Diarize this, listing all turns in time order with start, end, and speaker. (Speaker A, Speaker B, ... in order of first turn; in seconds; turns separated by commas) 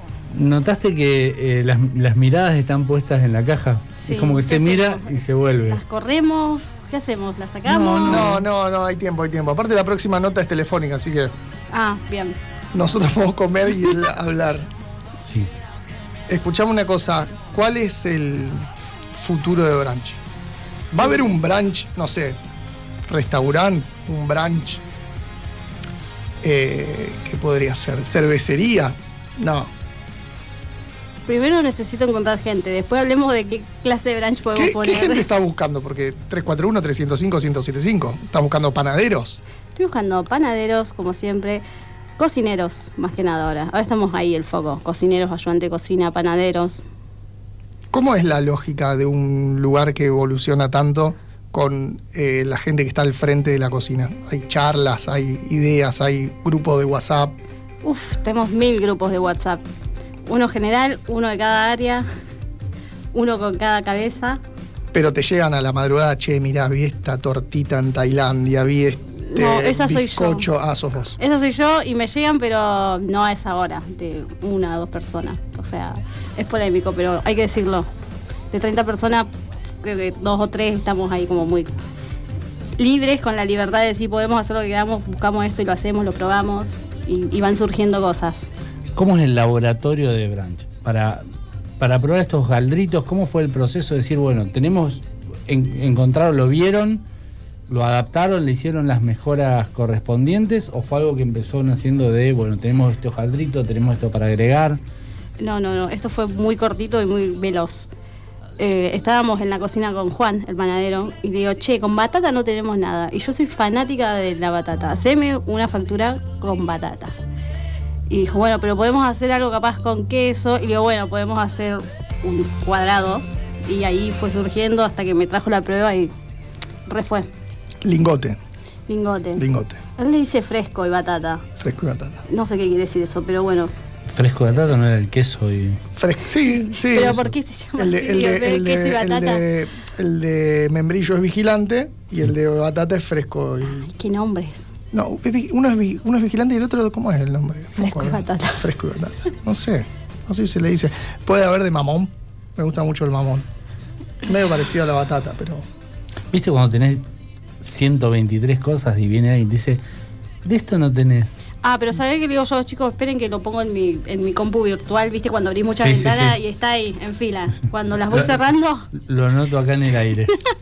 Speaker A: 0.3-5.8, Speaker B: 4.0-8.3, Speaker A: 7.7-8.5, Speaker C: 8.1-11.3, Speaker B: 11.7-12.4, Speaker C: 12.7-14.7, Speaker A: 15.2-15.5, Speaker C: 16.3-20.2, Speaker C: 21.0-22.4, Speaker C: 23.1-24.8, Speaker C: 26.4-29.7, Speaker B: 31.3-35.2, Speaker C: 34.5-39.4, Speaker B: 39.8-41.6, Speaker B: 42.2-46.8, Speaker C: 47.9-57.4, Speaker B: 57.8-59.6, Speaker B: 60.3-62.1, Speaker B: 63.1-64.4, Speaker C: 64.9-71.2, Speaker B: 69.3-70.5, Speaker B: 71.2-77.9, Speaker B: 78.5-79.3, Speaker B: 79.8-81.7, Speaker B: 82.8-88.5, Speaker A: 89.0-91.2, Speaker A: 91.8-97.0, Speaker A: 97.7-104.8, Speaker B: 105.4-107.9, Speaker B: 108.6-117.2, Speaker B: 118.1-126.1, Speaker B: 126.9-127.3, Speaker C: 127.8-128.4, Speaker B: 128.9-129.4, Speaker C: 129.4-129.8, Speaker B: 130.0-131.5, Speaker C: 131.6-132.2, Speaker B: 132.3-133.7, Speaker A: 134.1-135.8, Speaker C: 136.0-137.3, Speaker B: 136.9-139.5, Speaker C: 137.8-143.9, Speaker B: 143.7-144.7, Speaker C: 144.9-153.5, Speaker B: 147.8-148.7, Speaker C: 154.2-155.7, Speaker A: 156.3-157.1, Speaker A: 157.6-159.8, Speaker A: 160.4-161.4, Speaker B: 161.6-168.9, Speaker A: 165.8-166.4, Speaker A: 168.1-170.4